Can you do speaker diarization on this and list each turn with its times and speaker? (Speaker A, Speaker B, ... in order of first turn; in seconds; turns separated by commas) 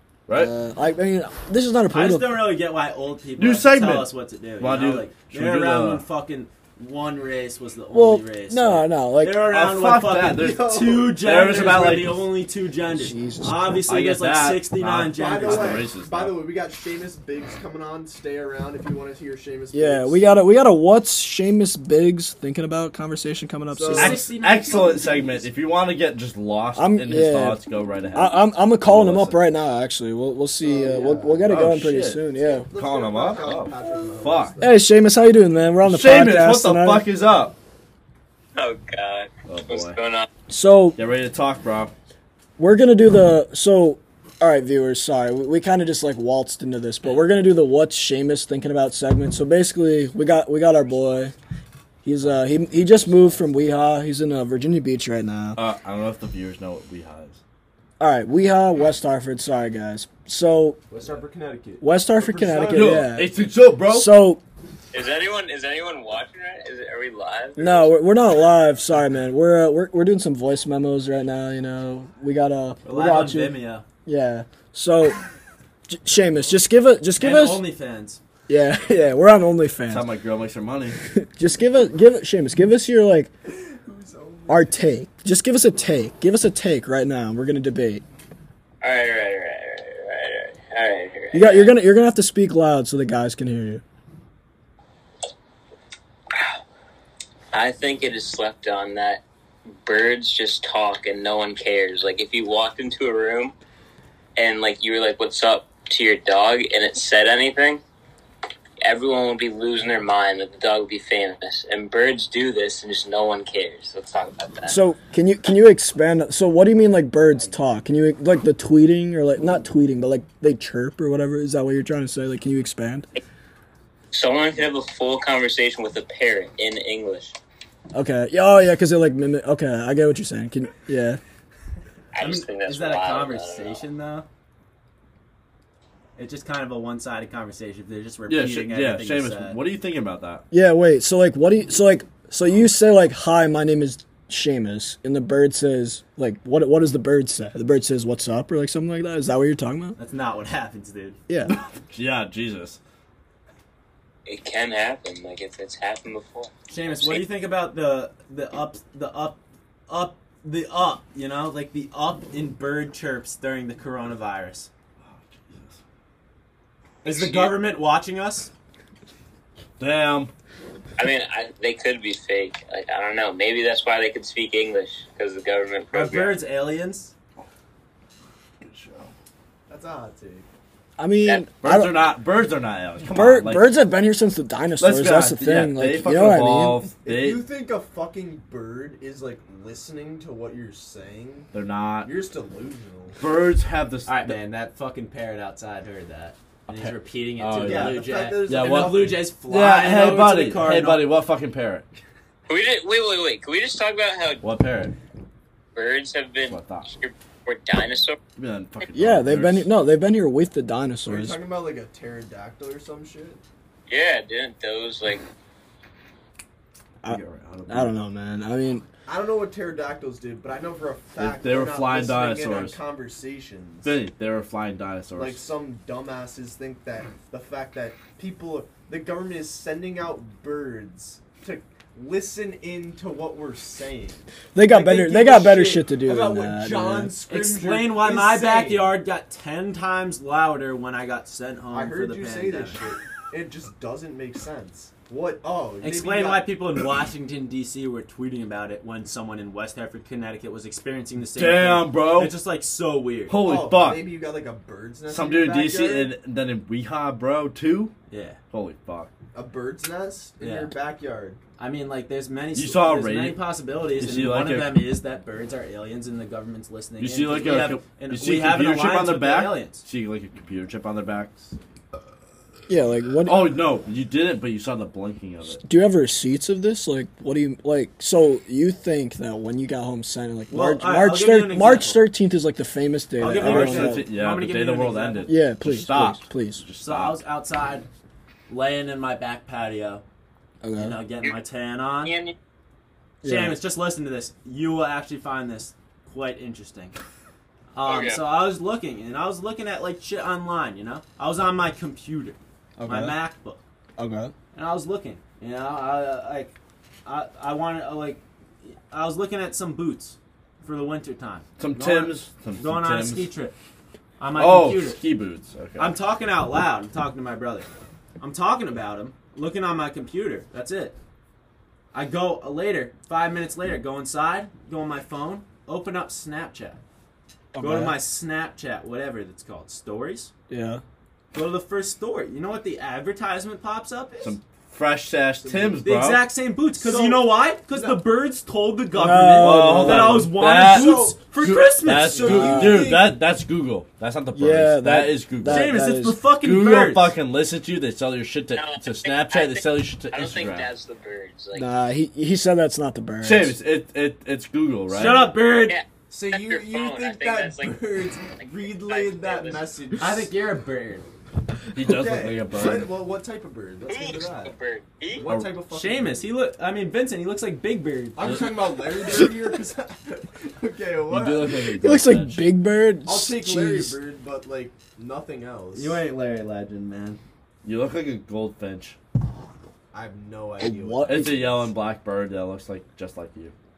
Speaker A: 0.3-2.5, Speaker B: 1.9-15.9, Speaker C: 3.4-6.0, Speaker A: 7.9-9.4, Speaker C: 9.4-12.3, Speaker D: 10.2-12.1, Speaker A: 12.9-13.8, Speaker C: 13.9-16.5, Speaker D: 15.1-20.2, Speaker A: 19.7-24.2, Speaker D: 23.7-25.3, Speaker B: 23.9-25.4, Speaker C: 24.0-29.5, Speaker A: 26.8-27.6, Speaker A: 28.1-32.7, Speaker D: 30.6-31.5, Speaker C: 31.5-32.2, Speaker D: 32.4-34.8, Speaker C: 32.8-34.6, Speaker A: 34.6-37.0, Speaker C: 35.8-37.5, Speaker E: 38.6-40.3, Speaker C: 39.5-40.0, Speaker A: 40.5-41.0, Speaker C: 41.0-41.9, Speaker A: 42.6-51.3, Speaker A: 52.0-55.6, Speaker D: 52.3-53.5, Speaker C: 55.6-57.4, Speaker A: 58.0-60.8, Speaker D: 60.9-63.1, Speaker A: 61.8-64.4, Speaker C: 62.7-64.1, Speaker E: 64.9-67.9, Speaker A: 67.6-75.2, Speaker B: 72.9-73.8, Speaker A: 75.9-77.6, Speaker B: 77.2-78.2, Speaker A: 78.5-80.1, Speaker C: 79.9-81.0, Speaker A: 81.0-83.3, Speaker D: 83.5-84.7, Speaker A: 84.5-88.0, Speaker E: 88.8-91.7, Speaker A: 91.3-93.8, Speaker E: 97.5-99.2, Speaker E: 99.8-103.5, Speaker E: 104.4-107.8, Speaker E: 108.8-114.8, Speaker A: 114.7-123.1, Speaker E: 124.1-127.4, Speaker A: 127.9-131.2, Speaker E: 132.1-133.8, Speaker B: 132.2-134.3, Speaker B: 136.2-139.6, Speaker C: 138.3-140.4, Speaker A: 140.5-150.0, Speaker B: 150.0-151.2, Speaker A: 151.3-151.6, Speaker C: 151.9-152.8, Speaker E: 154.3-156.5, Speaker B: 156.7-164.7, Speaker C: 165.0-165.8, Speaker B: 167.0-168.5, Speaker C: 167.1-167.5, Speaker C: 169.8-170.3, Speaker E: 171.0-176.4, Speaker B: 175.9-177.1, Speaker C: 178.6-179.1, Speaker D: 179.7-180.5, Speaker A: 181.0-182.0, Speaker C: 181.6-183.8, Speaker A: 183.1-186.9, Speaker C: 184.8-187.4, Speaker D: 187.1-191.5, Speaker C: 191.5-192.1, Speaker D: 192.0-193.2, Speaker C: 193.2-194.4, Speaker B: 194.1-201.1, Speaker C: 196.7-201.9, Speaker D: 197.6-199.2, Speaker E: 202.5-204.4, Speaker C: 204.4-204.9, Speaker E: 205.8-208.2, Speaker C: 206.5-206.9, Speaker C: 208.4-209.7, Speaker A: 208.9-211.4, Speaker D: 211.1-213.4, Speaker E: 213.9-215.2, Speaker A: 217.0-218.8, Speaker C: 217.1-217.9, Speaker D: 219.1-224.0, Speaker C: 221.2-222.8, Speaker C: 223.8-225.4, Speaker D: 225.2-238.9, Speaker A: 234.6-237.2, Speaker B: 237.3-242.8, Speaker D: 241.7-246.4, Speaker B: 245.8-253.4, Speaker C: 251.4-252.3, Speaker C: 253.3-254.0, Speaker D: 253.4-256.1, Speaker C: 255.1-257.9, Speaker B: 258.1-258.4, Speaker C: 258.5-259.1, Speaker D: 259.3-261.4, Speaker B: 260.4-260.7, Speaker B: 261.6-269.8, Speaker C: 262.6-263.4, Speaker C: 264.0-264.9, Speaker C: 267.0-271.4, Speaker A: 272.7-273.5, Speaker C: 273.3-275.6, Speaker A: 275.6-284.1, Speaker B: 280.5-282.1, Speaker B: 283.2-285.4, Speaker C: 283.4-287.2, Speaker A: 285.3-286.6, Speaker B: 286.8-287.9, Speaker B: 288.5-290.0, Speaker A: 290.6-291.0, Speaker B: 290.8-292.2, Speaker E: 292.0-292.3, Speaker A: 293.2-293.6, Speaker B: 293.2-296.9, Speaker B: 297.8-303.6, Speaker E: 297.8-298.2, Speaker A: 302.8-303.2, Speaker A: 304.0-304.3, Speaker B: 304.5-306.5, Speaker B: 307.1-313.6, Speaker C: 311.6-313.3, Speaker B: 314.2-315.0, Speaker C: 314.4-315.9, Speaker B: 315.8-317.7, Speaker B: 318.2-321.0, Speaker B: 321.9-326.8, Speaker A: 327.5-328.0, Speaker B: 327.6-330.3, Speaker A: 330.5-330.8, Speaker B: 331.3-334.3, Speaker C: 334.2-336.3, Speaker D: 335.4-335.8, Speaker B: 335.8-342.8, Speaker D: 336.8-338.0, Speaker A: 338.9-340.4, Speaker C: 339.4-345.8, Speaker D: 340.6-343.1, Speaker A: 342.2-342.9, Speaker A: 344.3-346.2, Speaker B: 345.4-347.1, Speaker C: 346.4-350.7, Speaker E: 348.6-351.7, Speaker A: 351.5-353.6, Speaker C: 353.2-355.3, Speaker B: 354.9-355.8, Speaker D: 354.9-355.3, Speaker E: 355.6-357.8, Speaker D: 356.1-360.3, Speaker E: 358.4-359.7, Speaker B: 360.0-361.1, Speaker C: 361.8-362.9, Speaker D: 361.8-364.5, Speaker E: 363.9-365.3, Speaker D: 365.1-366.2, Speaker B: 365.7-368.6, Speaker D: 368.2-371.5, Speaker C: 371.1-372.5, Speaker A: 371.8-374.0, Speaker D: 373.1-376.0, Speaker B: 375.7-377.2, Speaker C: 377.6-379.0, Speaker D: 379.9-381.5, Speaker A: 380.6-381.7, Speaker C: 381.1-383.5